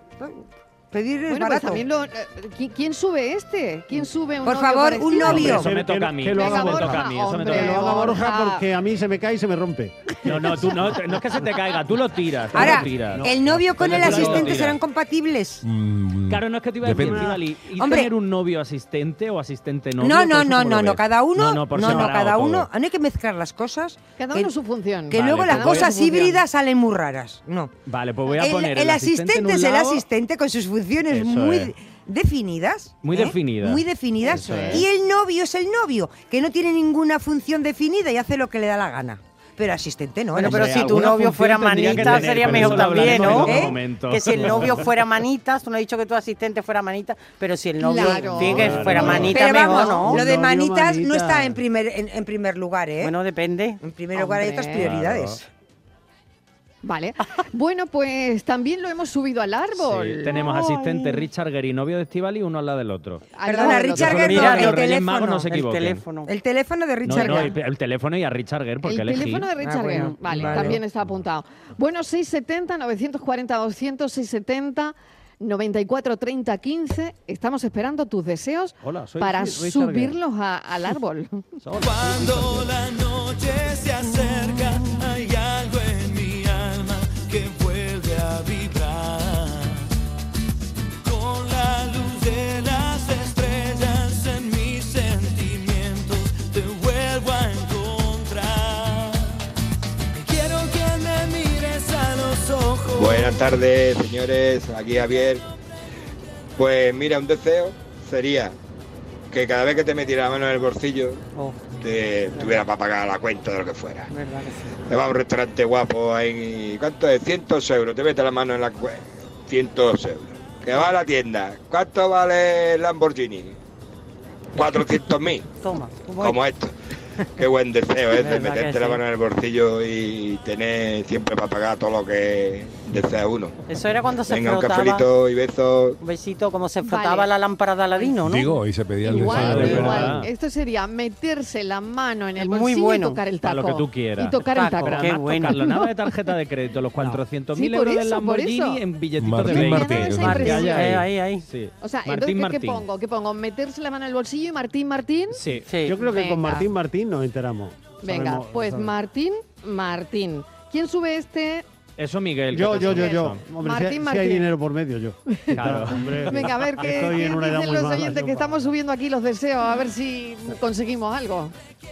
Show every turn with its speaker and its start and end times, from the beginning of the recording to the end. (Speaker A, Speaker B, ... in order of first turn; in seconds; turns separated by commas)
Speaker A: 0.2-1.8, Speaker B: 1.3-5.6, Speaker A: 4.4-5.7, Speaker C: 5.2-11.4, Speaker D: 5.4-8.2, Speaker B: 6.3-8.6, Speaker D: 10.2-14.8, Speaker C: 12.5-14.6, Speaker A: 12.5-15.6, Speaker E: 15.6-17.4, Speaker D: 16.3-22.7, Speaker C: 17.0-17.4, Speaker A: 17.8-18.1, Speaker A: 20.0-24.5, Speaker B: 24.2-26.4, Speaker A: 25.1-27.7, Speaker D: 25.2-26.0, Speaker D: 27.9-30.0, Speaker A: 28.3-41.1, Speaker D: 31.1-31.7, Speaker D: 33.0-34.9, Speaker F: 40.3-50.2, Speaker D: 40.4-44.9, Speaker C: 40.9-43.7, Speaker A: 43.4-43.8, Speaker C: 44.4-44.8, Speaker B: 47.8-49.9, Speaker D: 48.4-49.5, Speaker C: 48.4-51.6, Speaker A: 49.1-53.1, Speaker F: 53.0-53.8, Speaker A: 53.8-55.4, Speaker B: 54.1-54.9, Speaker D: 54.8-55.4, Speaker B: 56.8-60.4, Speaker D: 59.8-66.0, Speaker F: 60.3-61.2, Speaker B: 63.3-64.7, Speaker A: 63.4-65.4, Speaker F: 64.1-66.3, Speaker A: 66.2-67.5, Speaker D: 67.0-69.5, Speaker B: 67.2-67.5, Speaker B: 68.8-81.4, Speaker A: 69.6-70.8, Speaker D: 70.3-70.7, Speaker C: 78.8-80.2, Speaker C: 81.6-83.7, Speaker G: 81.8-89.9, Speaker G: 91.0-99.4, Speaker G: 100.1-103.4, Speaker H: 102.9-105.4, Speaker H: 106.6-108.5, Speaker H: 109.3-111.2, Speaker F: 111.3-111.6, Speaker H: 111.8-114.1, Speaker F: 112.3-112.6, Speaker F: 114.1-114.8, Speaker H: 114.9-123.5, Speaker H: 124.5-125.5, Speaker F: 125.6-126.4, Speaker H: 126.1-126.7, Speaker H: 127.4-133.5, Speaker F: 128.1-129.0, Speaker F: 133.7-135.1, Speaker H: 134.3-136.0, Speaker F: 136.0-138.5, Speaker B: 136.8-137.3, Speaker E: 138.2-140.2, Speaker B: 139.0-145.9, Speaker F: 139.2-139.9, Speaker D: 139.3-140.3, Speaker F: 142.4-143.2, Speaker D: 143.4-152.8, Speaker F: 144.6-145.6, Speaker B: 147.5-148.8, Speaker E: 149.2-150.8, Speaker B: 149.5-150.9, Speaker F: 150.2-151.4, Speaker B: 151.8-155.4, Speaker D: 155.3-155.7, Speaker F: 155.7-156.0, Speaker C: 155.8-158.9, Speaker B: 156.0-156.7, Speaker B: 158.0-161.6, Speaker D: 162.0-163.4, Speaker C: 162.5-168.7, Speaker B: 162.7-164.5, Speaker B: 165.3-171.5, Speaker D: 165.5-166.5